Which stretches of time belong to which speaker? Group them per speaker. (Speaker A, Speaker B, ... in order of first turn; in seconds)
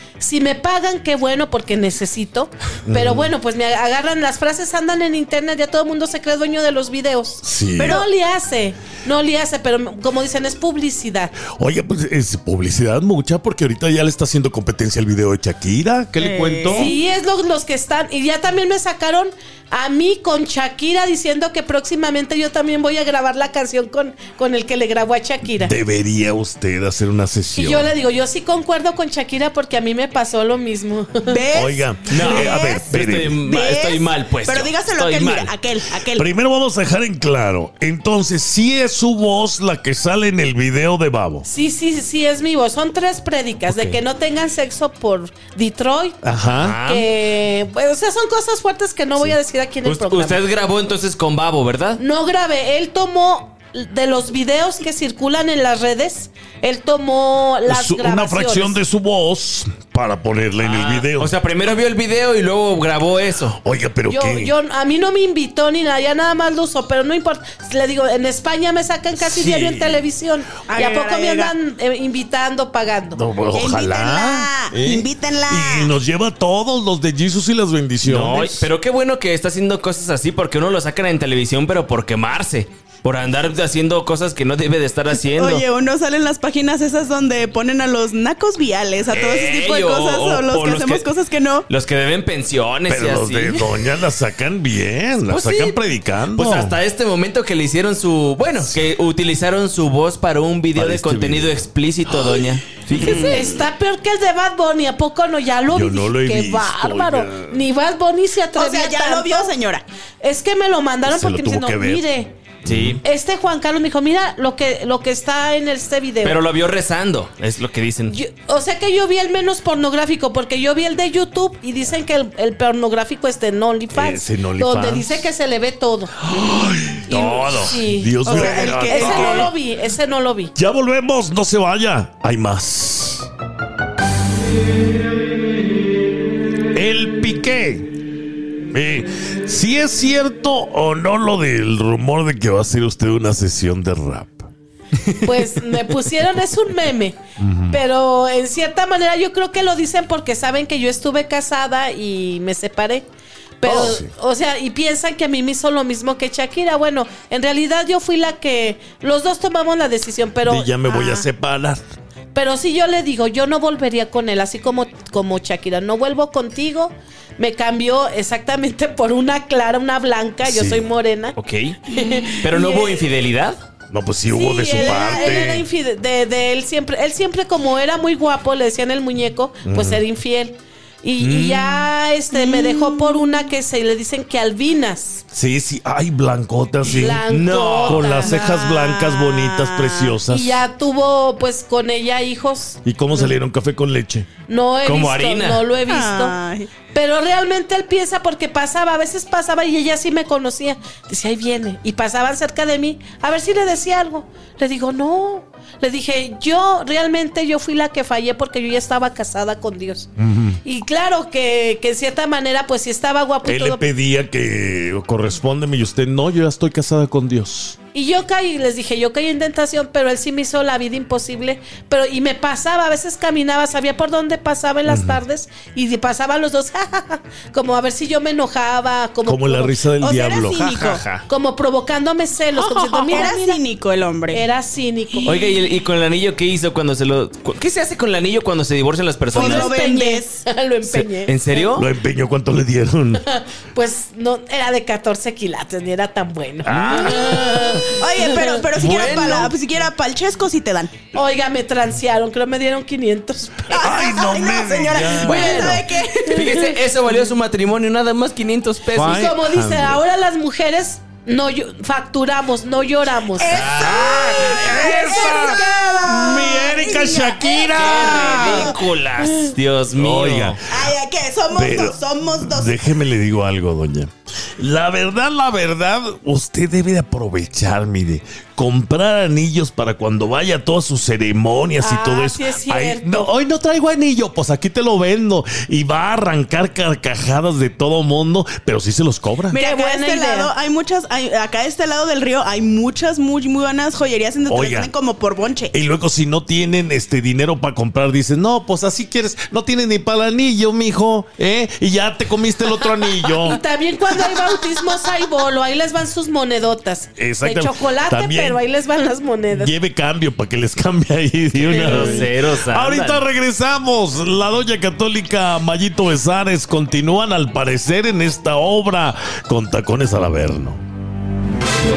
Speaker A: 0.2-11.4, 16.7-25.7, 27.6-31.4, 41.4-46.2, 46.8-50.4, 52.0-58.8, 64.1-73.2, 103.2-109.6, 110.2-112.3, 113.0-116.4, 118.1-126.2, 127.1-130.5, 145.2-153.1, 153.6-161.3, 162.3-171.3, 171.9-173.1, 174.3-185.2, 186.8-188.5, 190.3-193.3, 194.5-196.4, 196.9-210.1, 210.6-213.8, 217.9-229.8, 231.3-233.6, 234.3-235.4, 239.3-241.8, 243.3-248.7, 251.1-254.1, 259.0-263.5, 281.8-283.2, 289.5-290.5, 302.8-309.7, 311.7-312.3
Speaker B: 2.9-3.3, 7.4-8.0, 11.5-16.9, 25.6-27.9, 31.5-33.4, 36.1-41.5, 46.2-46.8, 57.7-61.3, 63.6-64.5, 69.2-70.1, 73.2-78.7, 92.9-96.8, 100.7-101.6, 105.7-107.6, 111.0-112.1, 112.6-113.0, 123.9-125.2, 126.3-129.5, 130.6-133.3, 136.7-137.9, 138.7-144.5, 147.4-147.8, 153.7-154.1, 160.4-161.8, 170.4-170.9, 173.9-175.7, 179.6-180.0, 185.3-187.3, 187.8-190.6, 192.8-194.3, 210.2-210.6, 213.4-217.8, 224.9-225.2, 229.2-230.7, 241.7-243.2, 246.6-247.7, 253.8-255.8, 258.9-260.0, 263.8-268.8, 269.9-270.6, 271.5-289.6, 294.5-294.9, 295.7-303.6, 307.2-308.6, 309.5-320.8
Speaker C: 7.8-8.1, 16.2-16.9, 31.3-36.3, 70.7-71.5, 73.5-75.9, 85.2-91.7, 103.0-103.4, 108.5-109.8, 128.2-129.5, 174.7-175.5, 182.3-183.2, 188.2-190.2, 195.9-196.7, 230.0-231.0, 232.6-234.5, 235.1-235.4, 239.3-240.4, 248.0-251.1, 253.7-256.8, 263.3-268.8, 270.7-272.8, 289.5-295.7
Speaker D: 32.1-35.6, 46.6-47.1, 49.8-52.0, 60.6-63.6, 78.0-85.7, 89.1-91.1, 91.7-93.7, 95.3-95.8, 96.3-103.6, 112.7-113.0, 116.2-118.2, 127.1-127.7, 171.4-171.8, 172.3-173.7, 181.2-181.9, 187.3-188.2, 194.8-195.7, 230.4-231.3, 235.2-239.8, 240.8-241.9, 246.7-249.5, 255.1-259.3, 263.5-265.4, 267.7-270.6, 311.5-313.2